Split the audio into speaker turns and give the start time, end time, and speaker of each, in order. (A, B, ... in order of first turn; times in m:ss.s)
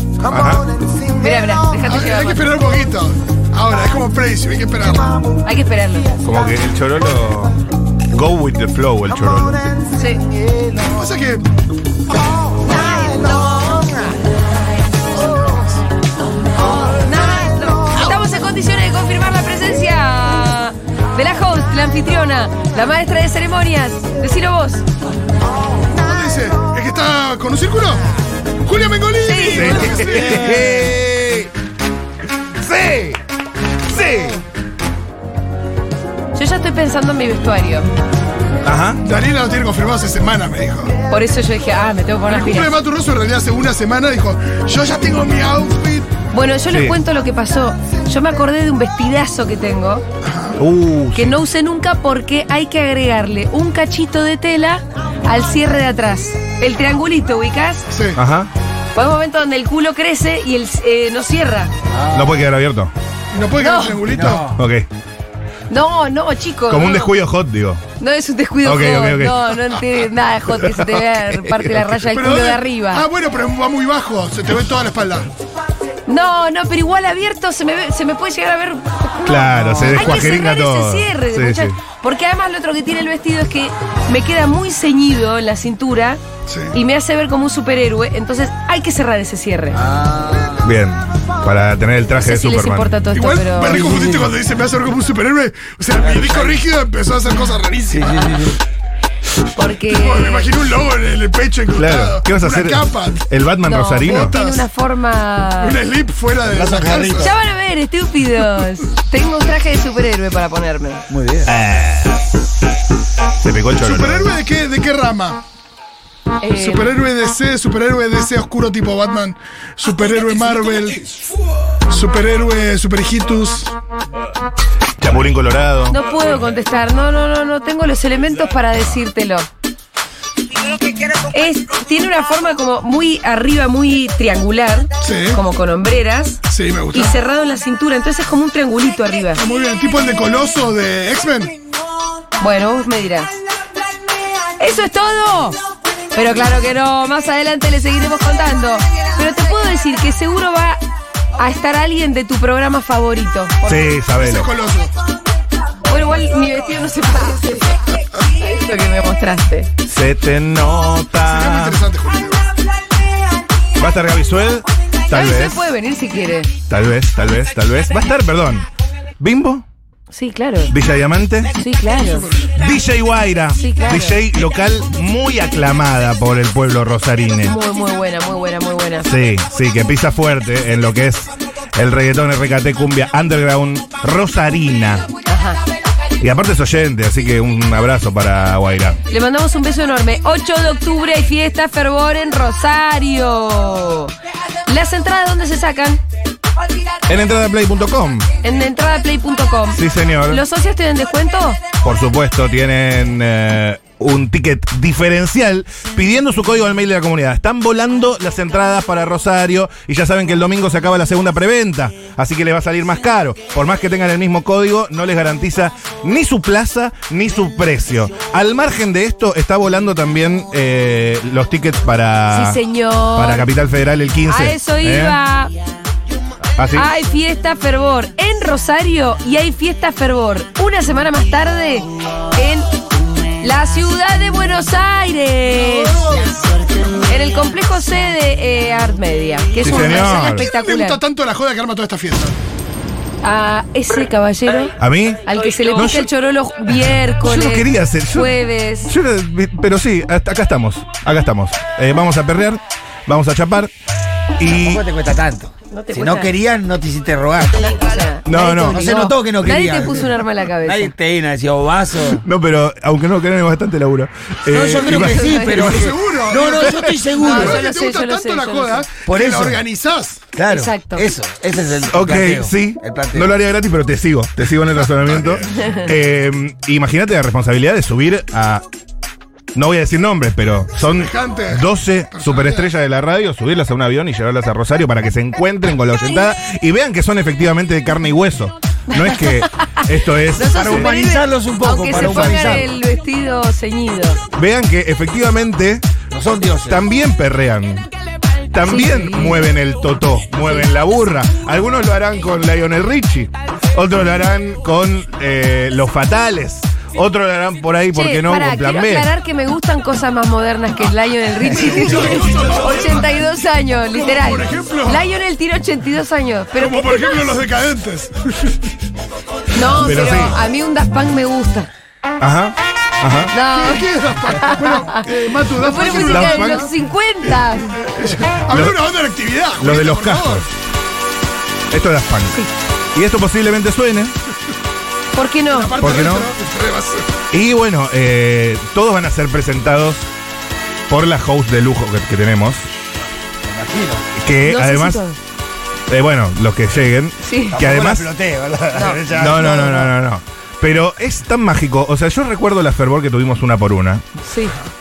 0:00.2-0:01.8 A
0:00.3-0:00.7 B
0:01.2-0:02.5 C
0:01.8-0:05.2 D
0:05.4-0:06.1 C
0:06.2-0:07.6 B
0:08.1-0:09.6 B
0:09.2-0:09.9 A
0:09.9-0:10.2 C
0:10.4-0:11.0 A
0:11.0-0:11.5 D
0:12.2-0:14.1 A
0:12.6-0:13.8 C
0:15.3-0:15.7 A
0:16.7-0:17.9 A
0:16.9-0:24.8 C
0:25.9-0:28.1 D
0:28.6-0:30.9 D
0:29.2-0:30.1 C
0:29.4-0:31.5 B
0:32.6-0:33.2 B
0:33.9-0:34.4 B
0:36.4-0:37.9 C
0:38.6-0:39.0 B
0:39.0-0:40.9 D
0:41.1-0:42.8 C
0:42.3-0:46.1 D
0:46.3-0:50.1 C
0:46.7-0:47.0 B
0:50.2-0:50.6 D
0:50.6-0:51.4 B
0:51.1-0:57.9 C
0:57.9-0:58.2 D
0:58.2-0:58.5 B
0:59.0-1:01.7 C
1:01.9-1:02.4 A
1:02.1-1:02.9 B
1:03.3-1:04.5 D
1:03.6-1:04.0 C
1:04.0-1:04.6 A
1:04.3-1:04.9 B
1:05.7-1:07.1 C
1:06.7-1:07.8 B
1:08.0-1:13.1 C
1:08.6-1:09.4 B
1:10.6-1:12.0 B
1:12.1-1:15.3 D
1:16.1-1:26.2 C
1:19.2-1:21.8 B
1:19.5-1:20.0 A
1:26.5-1:26.8 D
1:26.7-1:29.8 C
1:29.7-1:30.8 A
1:30.6-1:33.0 B
1:32.2-1:34.2 C
1:33.1-1:38.4 D
1:33.8-1:34.2 A
1:36.0-1:36.7 A
1:37.9-1:38.6 A
1:39.6-1:40.5 C
1:39.8-1:43.2 D
1:41.8-1:44.3 B
1:43.6-1:45.8 C
1:44.0-1:44.7 D
1:45.6-1:47.3 D
1:46.4-1:47.4 A
1:47.2-1:51.0 C
1:51.1-1:51.5 A
1:51.5-1:52.2 B
1:53.4-1:54.3 B
1:53.8-1:55.4 D
1:56.4-1:56.9 C
1:56.6-2:01.0 D
2:01.9-2:03.7 D
2:05.0-2:06.0 B
2:05.9-2:09.5 C
2:11.3-2:19.4 C
2:15.0-2:15.4 D
2:16.5-2:17.2 D
2:19.4-2:21.6 D
2:22.4-2:23.4 C
2:24.6-2:25.6 C
2:26.1-2:30.8 C
2:31.4-2:33.9 C
2:33.6-2:34.5 B
2:34.2-2:34.9 D
2:35.9-2:39.7 C
2:39.8-2:41.8 B
2:41.2-2:42.5 D
2:43.8-2:45.6 B
2:45.1-2:46.5 C
2:46.7-2:48.6 B
2:49.2-2:49.7 B
2:50.1-2:50.7 C
2:50.7-2:51.5 B
2:51.6-2:52.3 C
2:52.0-2:52.5 D
2:52.6-2:57.6 B
2:53.6-2:54.2 C
2:57.4-2:59.1 C
2:59.0-3:05.1 B
3:05.3-3:05.6 C
3:06.2-3:09.0 B
3:09.1-3:14.1 C
3:14.7-3:16.0 C
3:17.1-3:18.3 B
3:18.4-3:21.6 C
3:19.7-3:20.4 B
3:21.8-3:42.6 B
3:42.3-3:43.5 C
3:43.2-3:45.2 B
3:44.3-3:45.5 C
3:46.6-3:46.9 B
3:46.7-3:52.7 C
3:53.4-3:56.2 C
3:57.0-4:01.0 C
3:59.6-4:00.4 B
4:00.0-4:02.4 D
4:03.2-4:08.9 C
4:04.8-4:06.1 B
4:07.2-4:08.3 B
4:08.9-4:13.7 B
4:14.4-4:14.8 B
4:14.5-4:22.2 A
4:15.7-4:16.3 C
4:17.6-4:20.9 C
4:18.3-4:18.9 B
4:22.2-4:25.9 B
4:24.5-4:27.7 A
4:25.0-4:30.2 D
4:25.0-4:25.8 C
4:27.2-4:28.9 C
4:29.0-4:29.7 A
4:30.3-4:33.3 A
4:30.5-4:31.1 C
4:31.9-4:38.6 B
4:35.6-4:35.9 C
4:39.6-4:50.9 B
4:40.9-4:42.7 D
4:48.9-4:49.8 C
4:50.4-4:54.2 C
4:50.5-4:52.7 A
4:52.0-4:52.7 B
4:54.3-4:55.9 B
4:56.1-4:56.8 A
4:56.7-4:57.9 B
4:58.5-5:09.1 B
4:58.6-4:59.5 C
5:07.9-5:17.4 C
5:11.5-5:13.1 D
5:13.9-5:15.0 D
5:16.6-5:18.5 D
5:19.5-5:21.7 C
5:19.7-5:20.4 B
5:22.2-5:23.3 B
5:23.3-5:27.7 C
5:23.5-5:26.6 D
5:26.0-5:26.7 B
5:27.7-5:30.5 D
5:28.5-5:28.8 B
5:29.6-5:30.5 B
5:31.7-5:34.2 B
5:35.1-5:35.8 C
5:35.5-5:37.1 D
5:35.8-5:36.3 B
5:37.3-5:40.1 B
5:40.9-5:42.7 B
5:43.4-5:44.1 A
5:44.2-5:45.0 B
5:44.4-5:45.2 C
5:45.9-5:48.1 B
5:47.2-5:47.6 C
5:47.5-5:49.9 A
5:48.8-5:49.8 C
5:49.1-5:54.0 B
5:54.3-5:54.6 C